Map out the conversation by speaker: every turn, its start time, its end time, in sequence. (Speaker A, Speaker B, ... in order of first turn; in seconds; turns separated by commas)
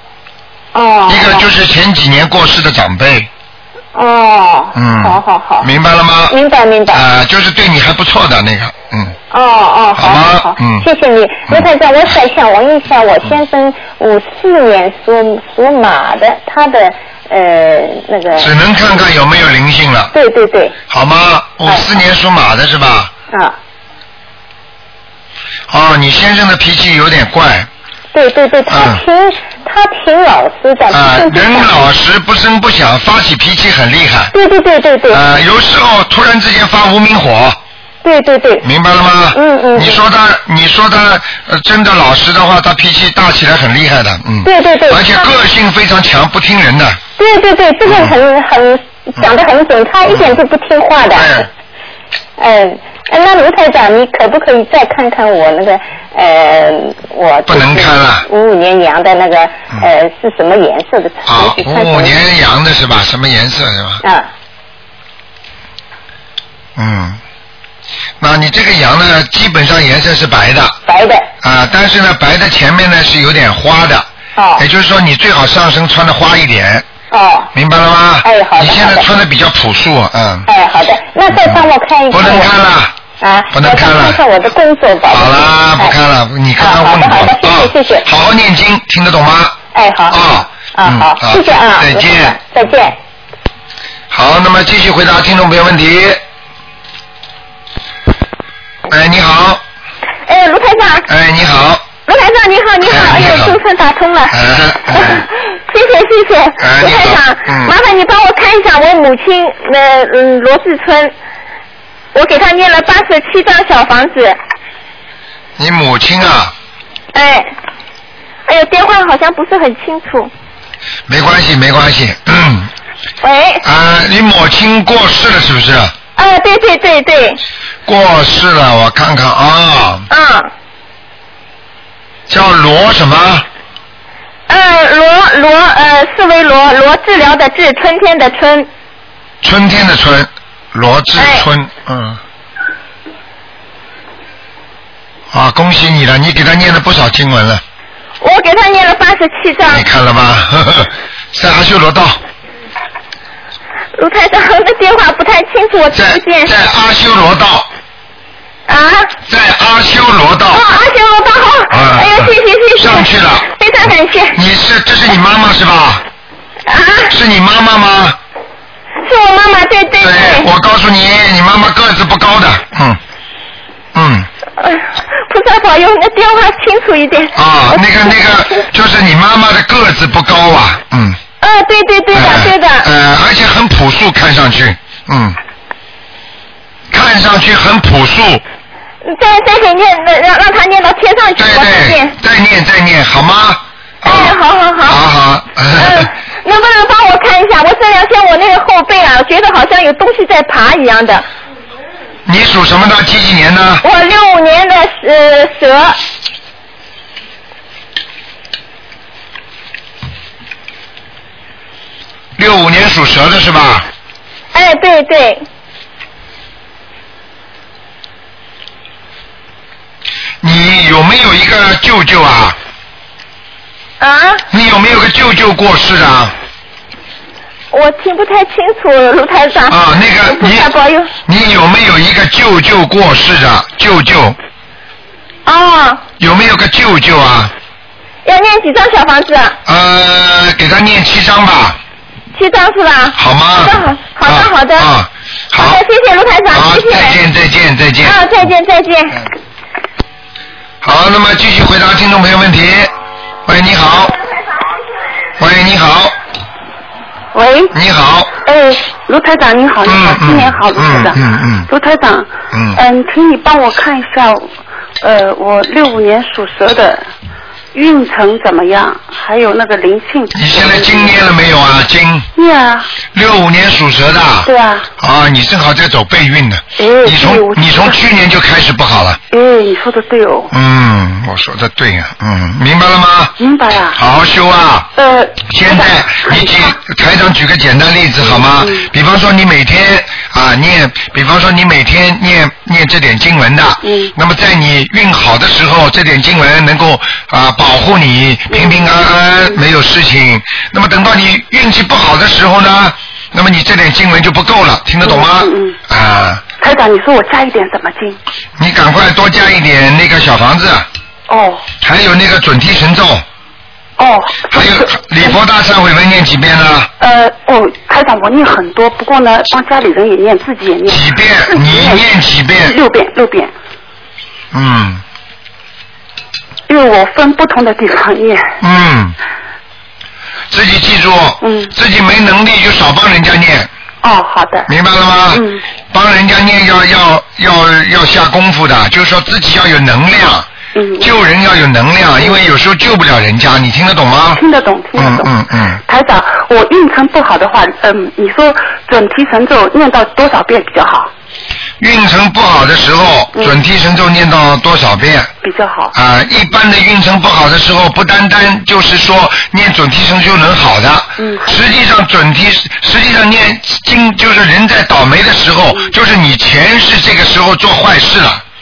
Speaker A: 0.7-1.4, Speaker B: 1.1-3.3, Speaker A: 3.9-5.7, Speaker B: 4.7-6.3, Speaker A: 6.3-7.0, Speaker B: 6.9-9.2, Speaker A: 9.3-18.5, Speaker B: 9.9-10.8, Speaker B: 18.4-20.1, Speaker A: 20.1-20.7, Speaker B: 20.9-23.1, Speaker B: 25.7-27.7, Speaker A: 28.1-31.7, Speaker B: 28.7-29.0, Speaker B: 30.9-34.3, Speaker A: 34.3-35.2, Speaker B: 35.1-37.6, Speaker A: 38.0-38.6, Speaker B: 38.6-47.0, Speaker A: 39.3-40.0, Speaker A: 44.4-45.2, Speaker A: 47.2-51.5, Speaker B: 47.9-48.1, Speaker B: 50.1-50.4, Speaker B: 51.1-51.5, Speaker A: 52.4-62.1, Speaker B: 57.5-58.2, Speaker B: 61.2-64.0, Speaker A: 64.0-64.3, Speaker B: 66.8-67.2, Speaker B: 68.2-70.8, Speaker A: 70.9-71.3, Speaker B: 71.4-76.8, Speaker A: 74.3-74.6, Speaker A: 77.1-77.5, Speaker B: 77.5-80.5, Speaker A: 78.2-79.1, Speaker A: 80.5-82.5, Speaker B: 81.4-83.0, Speaker A: 83.2-85.9, Speaker B: 83.5-84.2, Speaker B: 85.1-89.6, Speaker A: 86.6-88.0, Speaker A: 89.7-90.2, Speaker B: 90.1-92.3, Speaker A: 90.7-93.0, Speaker B: 94.1-96.2, Speaker B: 98.9-99.6, Speaker C: 100.2-101.1, Speaker B: 101.1-101.8, Speaker C: 102.1-104.4, Speaker B: 102.8-103.6, Speaker B: 104.3-105.2, Speaker C: 104.9-111.1, Speaker B: 106.6-107.7, Speaker C: 112.1-114.4, Speaker B: 115.6-116.5, Speaker C: 117.1-117.5, Speaker C: 118.5-120.3, Speaker B: 121.1-122.7, Speaker C: 123.2-123.6, Speaker B: 123.6-125.9, Speaker C: 126.2-127.4, Speaker B: 127.8-130.1, Speaker C: 130.1-130.5, Speaker B: 132.3-133.4, Speaker C: 134.5-138.7, Speaker B: 139.4-142.2, Speaker C: 141.2-141.4, Speaker B: 145.3-147.6, Speaker C: 148.2-149.8, Speaker B: 149.7-152.2, Speaker C: 153.9-156.5, Speaker B: 155.9-157.7, Speaker C: 158.7-159.1, Speaker B: 159.3-160.6, Speaker C: 160.5-164.4, Speaker B: 161.7-163.4, Speaker B: 164.3-166.0, Speaker C: 166.7-167.1, Speaker B: 167.1-168.2, Speaker C: 169.0-170.5, Speaker B: 170.0-173.0, Speaker B: 173.9-174.3, Speaker C: 174.6-177.8, Speaker B: 177.3-181.2, Speaker C: 181.4-182.9, Speaker B: 182.1-185.4, Speaker B: 186.9-188.4, Speaker C: 189.0-192.1, Speaker B: 191.3-196.1, Speaker C: 194.0-195.0, Speaker C: 195.8-201.2, Speaker B: 202.2-203.8, Speaker C: 203.8-206.0, Speaker B: 212.4-213.9, Speaker C: 214.5-215.4, Speaker B: 220.4-222.6, Speaker C: 224.0-224.4, Speaker B: 224.5-226.3, Speaker C: 227.7-231.1, Speaker B: 229.7-230.7, Speaker B: 231.2-234.4, Speaker C: 235.4-236.0, Speaker B: 236.2-237.5, Speaker C: 238.2-239.6, Speaker B: 239.7-241.8, Speaker C: 242.3-244.9, Speaker B: 243.2-245.8, Speaker C: 245.5-247.2, Speaker B: 246.5-248.2, Speaker C: 248.0-249.3, Speaker B: 250.8-252.9, Speaker B: 253.4-254.2, Speaker B: 255.4-256.1, Speaker D: 257.3-257.7, Speaker B: 257.7-258.3, Speaker D: 258.4-267.1, Speaker B: 259.9-261.7, Speaker B: 262.5-262.8, Speaker D: 267.7-271.1, Speaker B: 270.3-272.3, Speaker D: 272.4-272.9, Speaker B: 273.1-279.2, Speaker D: 274.4-274.9, Speaker D: 276.8-278.0, Speaker D: 279.3-280.5, Speaker B: 280.5-283.3, Speaker D: 283.4-284.0, Speaker B: 283.9-284.9, Speaker D: 284.9-286.7, Speaker B: 285.4-306.4, Speaker D: 288.2-288.9, Speaker D: 293.8-294.1, Speaker D: 298.5-298.8, Speaker D: 305.0-305.8, Speaker D: 306.6-308.2, Speaker B: 308.6-310.9, Speaker D: 311.3-311.7, Speaker B: 311.8-313.2, Speaker D: 314.0-315.3, Speaker B: 314.5-316.9, Speaker D: 317.0-322.0, Speaker B: 320.9-322.7, Speaker D: 322.6-323.5, Speaker B: 324.5-325.0, Speaker D: 326.7-328.5, Speaker B: 328.6-329.2, Speaker B: 330.5-333.7, Speaker D: 331.4-331.7, Speaker D: 334.0-334.7, Speaker B: 334.7-340.5, Speaker D: 335.3-335.6, Speaker D: 340.7-341.1, Speaker B: 341.0-344.4, Speaker D: 344.4-345.3, Speaker B: 344.9-345.8, Speaker D: 345.9-351.1, Speaker B: 351.8-355.3, Speaker D: 353.3-353.6, Speaker D: 355.4-355.9, Speaker B: 355.9-368.4, Speaker D: 361.2-361.6